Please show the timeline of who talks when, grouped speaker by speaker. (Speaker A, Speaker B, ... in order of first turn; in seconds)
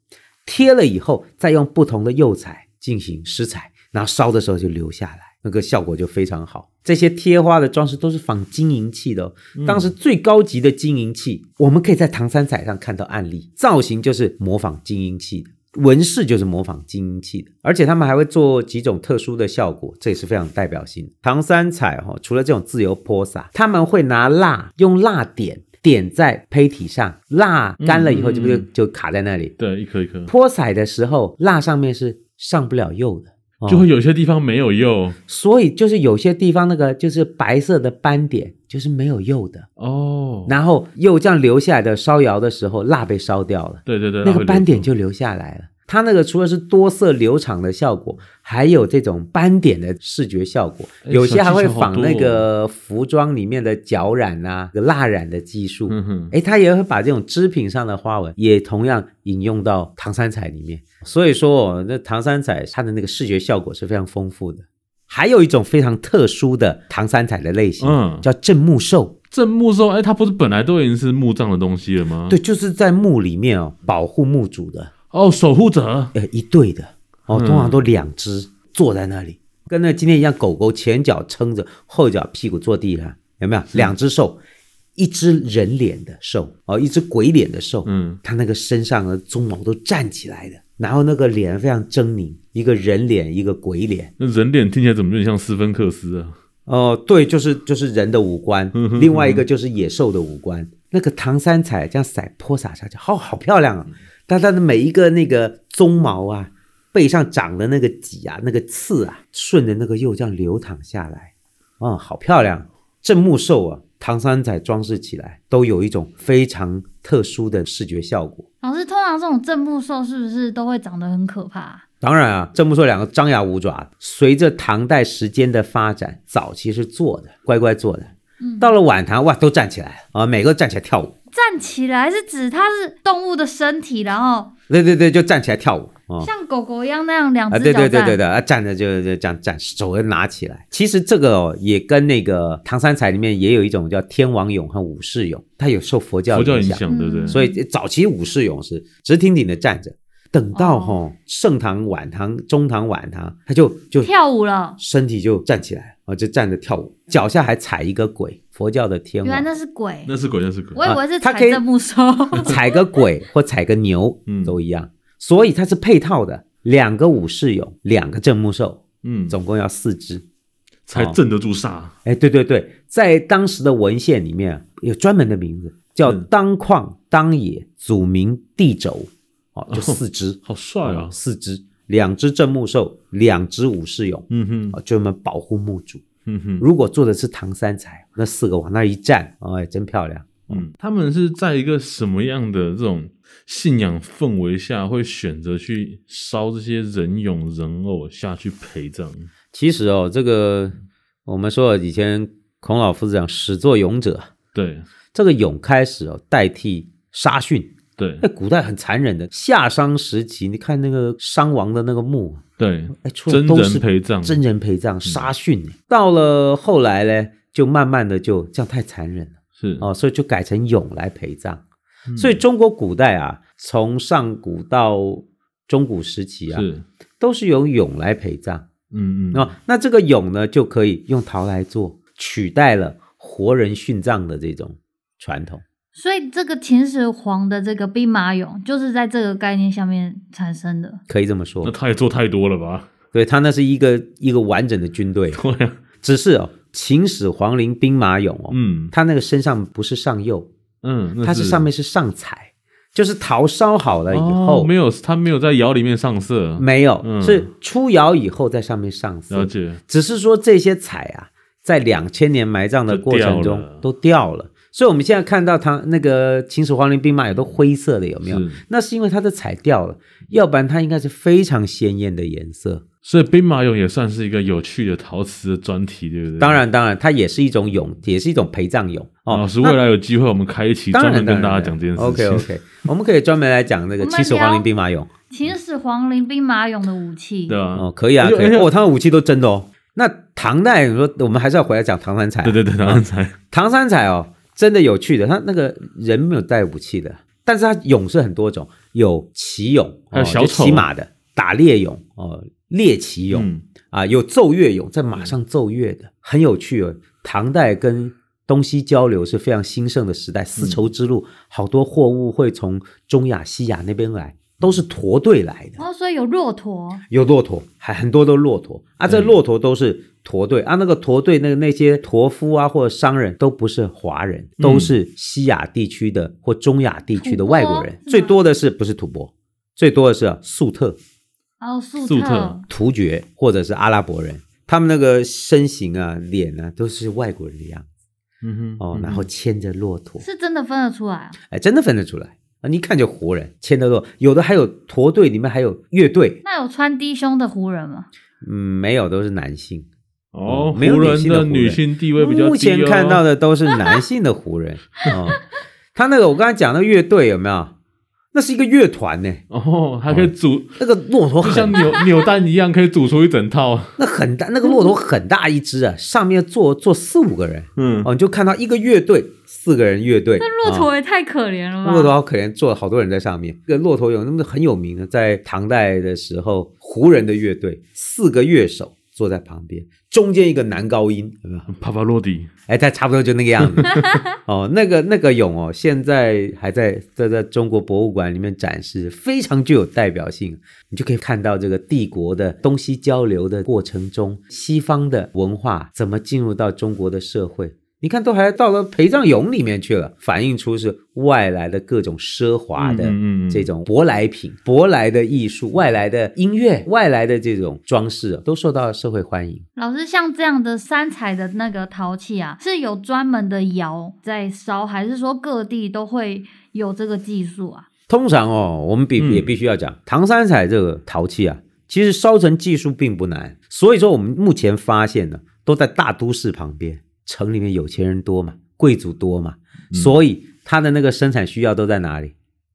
Speaker A: 0.4-29.5, 30.3-33.9, 35.2-39.7, 40.5-69.2, 72.3-74.9, 76.1-84.4, 85.0-94.1, 96.7-118.5, 122.0-131.1, 134.7-136.3, 137.5-154.1, 154.8-159.5, 160.8-161.6, 162.4-170.2, 172.0-186.0, 186.6-190.6, 199.5-200.7, 201.2-204.3, 205.1-212.4, 212.9-221.6, 222.2-226.7, 227.2-228.7, 229.3-235.6, 241.1-241.7, 243.1-245.4, 246.0-250.5, 251.2-254.7, 256.6-272.8, 276.4-279.8, 280.9-285.1, 287.7-315.8, 317.1-331.0, 332.7-337.9, 338.8-340.2, 341.5-346.4, 348.4-349.9, 350.5-355.4, 355.9-357.7, 358.3-359.4, 360.1-361.9, 364.0-370.9, 371.8-381.7, 382.7-409.6, 418.1-432.3
Speaker B: 9.5-9.9, 27.8-28.6, 29.6-30.3, 33.7-35.2, 39.8-40.5, 43.9-44.9, 51.0-52.5, 55.9-56.3, 67.8-68.2, 69.3-72.4, 75.1-76.1, 77.3-77.8, 87.8-88.2, 94.2-96.3, 98.7-99.4, 146.3-147.4, 160.1-160.8, 164.3-164.6, 169.0-169.4, 170.9-171.9, 179.7-181.1, 184.3-184.8, 186.2-186.6, 190.5-199.3, 204.5-204.8, 208.0-208.2, 212.6-214.4, 219.6-219.9, 222.1-222.4, 226.5-226.8, 228.9-229.5, 241.6-242.9, 245.3-245.8, 248.5-248.9, 250.8-251.7, 254.1-257.5, 259.3-259.8, 262.9-263.8, 268.2-268.6, 273.0-276.6, 279.3-282.4, 287.5-288.7, 292.4-293.3, 300.1-300.9, 303.3-303.6, 324.6-324.9, 332.0-332.6, 338.4-339.2, 350.3-353.2, 359.5-360.8, 361.4-363.9, 367.8-368.1, 381.7-382.5, 383.6-384.1, 402.8-403.7, 419.2-419.5, 429.9-430.2
Speaker C: 118.6-121.8, 128.4-128.8, 131.3-134.5, 136.2-138.2, 146.9-147.6, 150.5-151.0, 154.0-154.8, 159.2-160.1, 160.7-162.8, 235.9-241.0, 284.0-284.6, 285.3-287.6, 315.8-317.0, 327.2-328.4, 331.6-332.6, 340.2-341.4, 346.4-348.1, 370.4-372.1, 409.8-417.9